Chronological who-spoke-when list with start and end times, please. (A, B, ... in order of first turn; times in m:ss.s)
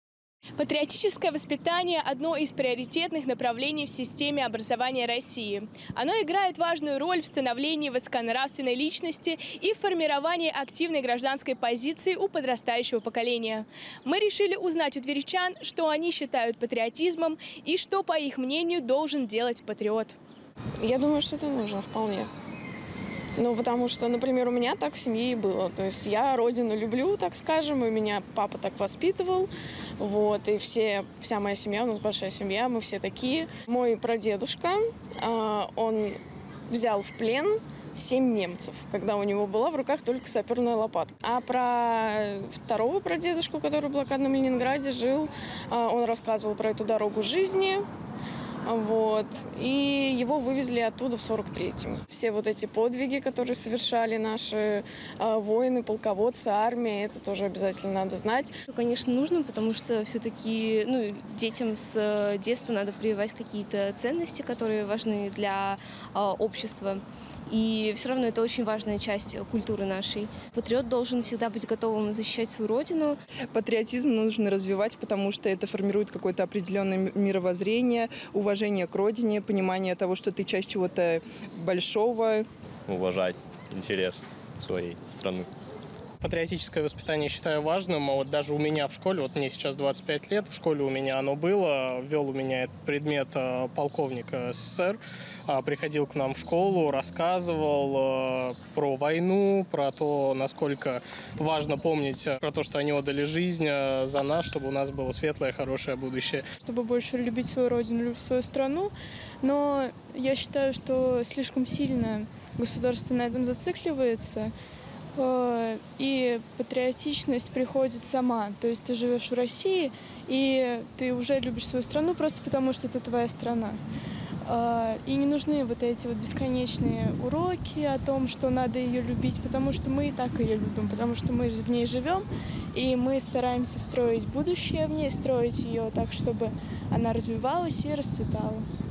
0:00.6-0:20.2 A
0:20.8-0:22.3 B
0:23.4-0:36.2 B
0:36.7-0:47.8 B
0:48.6-0:58.5 B
0:58.7-1:13.2 C
1:13.5-1:22.4 D
1:22.9-1:25.5 E
1:26.2-1:46.4 F
1:46.6-1:54.5 G
1:55.2-2:03.8 G
2:04.4-2:18.6 G